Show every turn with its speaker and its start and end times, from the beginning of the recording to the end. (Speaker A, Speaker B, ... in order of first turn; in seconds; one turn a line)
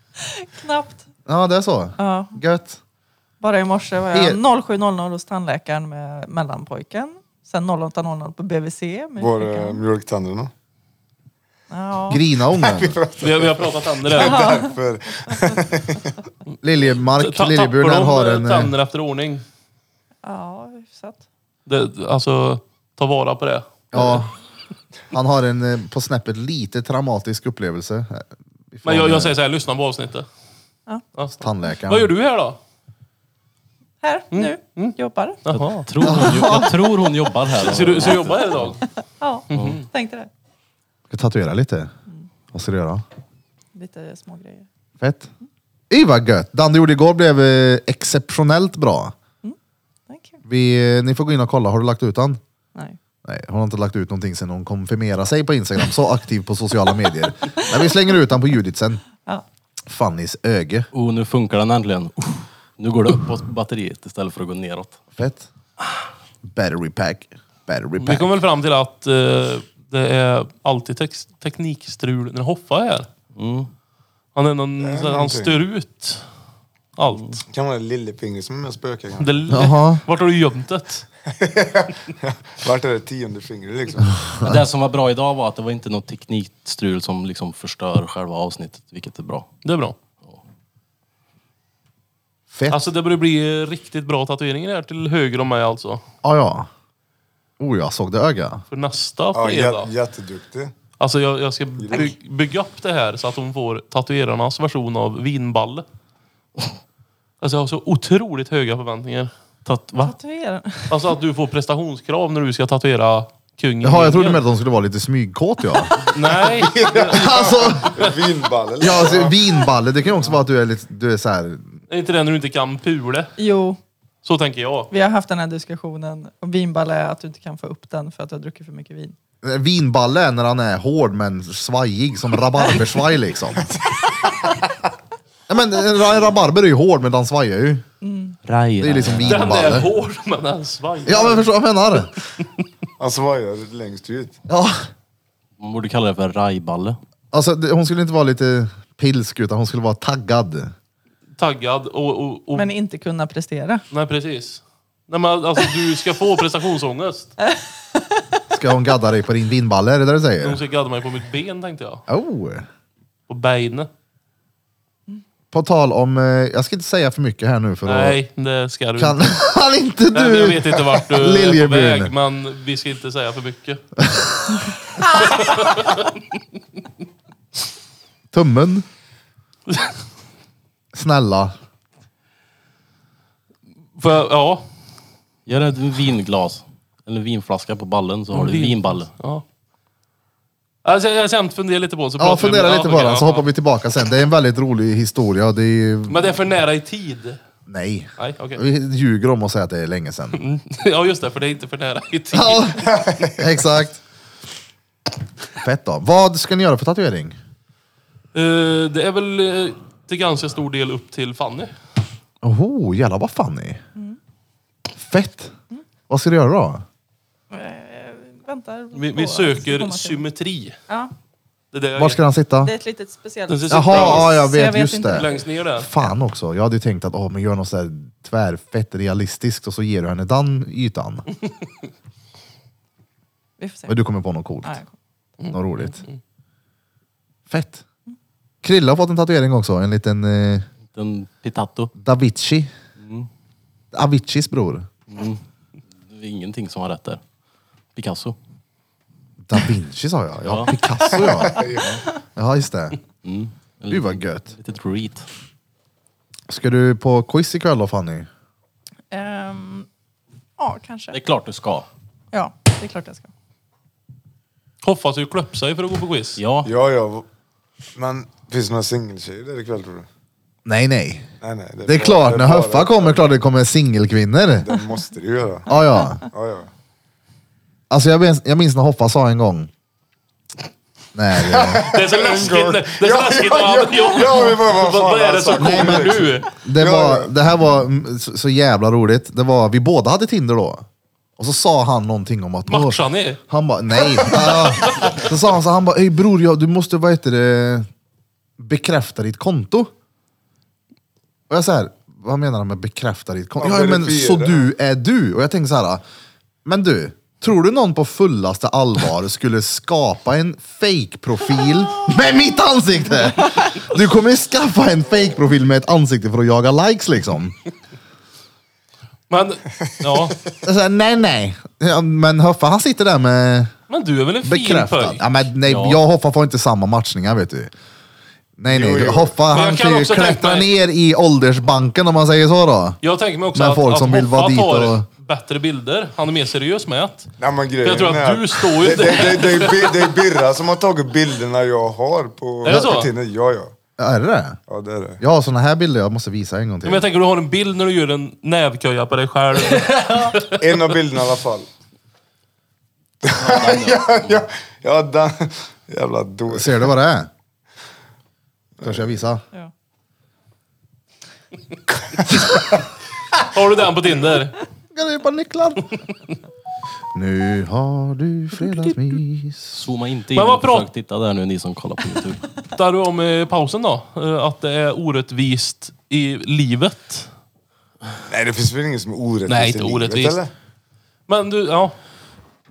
Speaker A: 0.2-1.1
Speaker B: 1.2-2.8
Speaker A: 2.0-2.4
Speaker A: 3.4-9.8
Speaker B: 4.1-4.4
Speaker C: 9.2-10.5
Speaker A: 11.7-12.2
Speaker B: 12.1-13.0
Speaker C: 12.5-16.1
Speaker D: 13.2-14.6
Speaker A: 14.2-14.7
Speaker B: 16.6-18.7
Speaker D: 17.2-19.4
Speaker A: 20.2-21.2
Speaker D: 21.7-24.2
Speaker B: 23.9-24.3
Speaker B: 25.1-29.4
Speaker D: 28.8-30.2
Speaker D: 31.2-32.6
Speaker B: 31.4-32.1
Speaker A: 34.0-35.4
Speaker D: 34.3-35.9
Speaker E: 35.5-38.8
Speaker B: 36.0-36.7
Speaker D: 37.5-38.8
Speaker A: 39.2-40.3
Speaker D: 39.5-39.8
Speaker E: 39.5-39.8
Speaker B: 41.1-41.9
Speaker B: 42.5-43.0
Speaker A: 43.7-44.6
Speaker B: 45.0-45.3
Speaker B: 45.9-49.1
Speaker A: 50.1-50.4
Speaker B: 50.4-52.4
Speaker B: 53.2-59.0
Speaker B: 59.9-60.9
Speaker E: 60.9-65.0
Speaker B: 65.2-65.5
Speaker B: 66.5-68.3
Speaker D: 68.0-73.1
Speaker E: 73.3-73.7
Speaker D: 74.3-76.2
Speaker C: 74.8-75.6
Speaker D: 77.0-77.4
Speaker C: 77.5-79.4
Speaker D: 79.2-81.0
Speaker B: 79.5-80.0
Speaker C: 81.3-84.2
Speaker B: 84.1-84.6
Speaker E: 84.4-89.5
Speaker D: 89.6-90.0
Speaker B: 92.5-92.9
Speaker D: 92.7-96.0
Speaker B: 96.2-96.7
Speaker B: 97.6-98.6
Speaker D: 98.7-99.9
Speaker C: 99.3-100.7
Speaker D: 101.0-105.8
Speaker C: 101.8-102.1
Speaker D: 107.4-109.3
Speaker E: 109.6-110.1
Speaker A: 110.0-111.0
Speaker D: 110.9-114.4
Speaker B: 113.8-116.1
Speaker D: 116.1-117.2
Speaker C: 116.4-119.6
Speaker B: 117.1-118.0
Speaker B: 118.8-121.7
Speaker D: 121.9-123.3
Speaker A: 123.4-123.8
Speaker D: 124.2-124.9
Speaker A: 124.9-129.1
Speaker B: 129.4-133.7
Speaker B: 135.5-137.8
Speaker A: 138.0-138.4
Speaker E: 138.4-139.7
Speaker B: 138.8-139.9
Speaker D: 139.2-141.5
Speaker B: 141.0-142.1
Speaker C: 143.0-144.4
Speaker B: 144.5-144.9
Speaker E: 145.6-147.0
Speaker B: 147.3-150.7
Speaker D: 151.4-152.7
Speaker A: 152.5-153.8
Speaker D: 153.9-157.3
Speaker A: 157.4-158.2
Speaker B: 158.5-160.6
Speaker D: 160.4-162.0
Speaker B: 162.1-162.7
Speaker D: 163.3-163.9
Speaker B: 165.5-168.2
Speaker D: 167.8-169.4
Speaker B: 169.0-172.1
Speaker D: 170.1-173.8
Speaker B: 174.0-174.7
Speaker D: 175.0-176.1
Speaker B: 178.3-178.8
Speaker B: 180.9-181.5
Speaker D: 184.0-184.6
Speaker E: 185.4-189.1
Speaker D: 188.3-189.4
Speaker D: 190.8-193.5
Speaker B: 192.2-196.3
Speaker D: 196.1-197.4
Speaker B: 197.7-200.4
Speaker D: 198.2-198.6
Speaker D: 200.3-202.9
Speaker B: 202.3-204.0
Speaker C: 202.9-203.3
Speaker B: 205.6-207.3
Speaker D: 208.3-211.7
Speaker B: 212.4-213.8
Speaker B: 215.0-215.5
Speaker B: 216.1-216.8
Speaker A: 217.5-220.2
Speaker D: 218.9-220.8
Speaker D: 221.7-222.2
Speaker B: 221.9-222.7
Speaker A: 222.6-225.4
Speaker D: 223.5-224.4
Speaker B: 223.7-231.2
Speaker D: 225.1-225.9
Speaker A: 233.6-234.0
Speaker B: 233.9-234.8
Speaker A: 234.6-234.9
Speaker D: 235.4-236.2
Speaker B: 235.5-236.0
Speaker B: 237.5-237.8
Speaker B: 238.6-240.7
Speaker E: 240.9-241.9
Speaker B: 242.0-242.7
Speaker E: 243.0-243.3
Speaker B: 243.9-244.9
Speaker E: 245.1-245.4
Speaker E: 246.0-247.2
Speaker E: 247.9-248.3
Speaker B: 249.4-251.7
Speaker E: 250.4-250.8
Speaker C: 251.0-252.0
Speaker B: 252.3-253.0
Speaker E: 253.2-255.2
Speaker B: 253.9-254.5
Speaker B: 256.5-258.3
Speaker A: 259.1-259.9
Speaker A: 260.6-261.2
Speaker E: 261.1-261.9
Speaker A: 262.3-263.3
Speaker D: 264.8-266.4
Speaker E: 266.4-266.7
Speaker C: 266.6-267.3
Speaker C: 267.9-270.1
Speaker B: 270.6-271.3
Speaker C: 271.4-273.3
Speaker B: 271.9-274.7
Speaker C: 274.6-276.7
Speaker B: 275.7-276.2
Speaker B: 277.9-279.7
Speaker B: 281.1-281.9
Speaker C: 281.4-287.3
Speaker D: 281.8-286.5
Speaker B: 285.6-290.9
Speaker B: 291.4-297.9
Speaker D: 292.7-293.4
Speaker D: 294.5-295.1
Speaker B: 298.6-299.9
Speaker B: 301.5-306.0
Speaker C: 303.6-304.7
Speaker B: 306.6-317.6
Speaker D: 319.3-320.4
Speaker B: 320.6-323.7
Speaker D: 323.9-325.2
Speaker B: 324.4-327.7
Speaker E: 325.6-326.0
Speaker B: 328.6-333.0
Speaker C: 328.7-329.4
Speaker D: 329.5-330.7
Speaker D: 333.0-337.3
Speaker B: 333.5-335.1
Speaker C: 337.4-343.7
Speaker D: 337.8-340.1
Speaker D: 342.6-343.1
Speaker B: 344.0-344.6
Speaker C: 344.7-345.2
Speaker B: 345.2-347.1
Speaker D: 346.9-350.8
Speaker E: 349.9-350.3
Speaker C: 350.6-351.7
Speaker C: 353.2-356.9
Speaker E: 353.4-354.4
Speaker B: 356.5-357.3
Speaker C: 358.8-359.2
Speaker B: 358.8-359.4
Speaker D: 363.4-364.6
Speaker B: 364.9-365.9
Speaker B: 367.1-369.8
Speaker E: 369.7-372.4
Speaker D: 370.3-370.9
Speaker D: 372.7-377.3
Speaker C: 378.3-380.5
Speaker D: 379.5-380.4
Speaker D: 381.3-381.9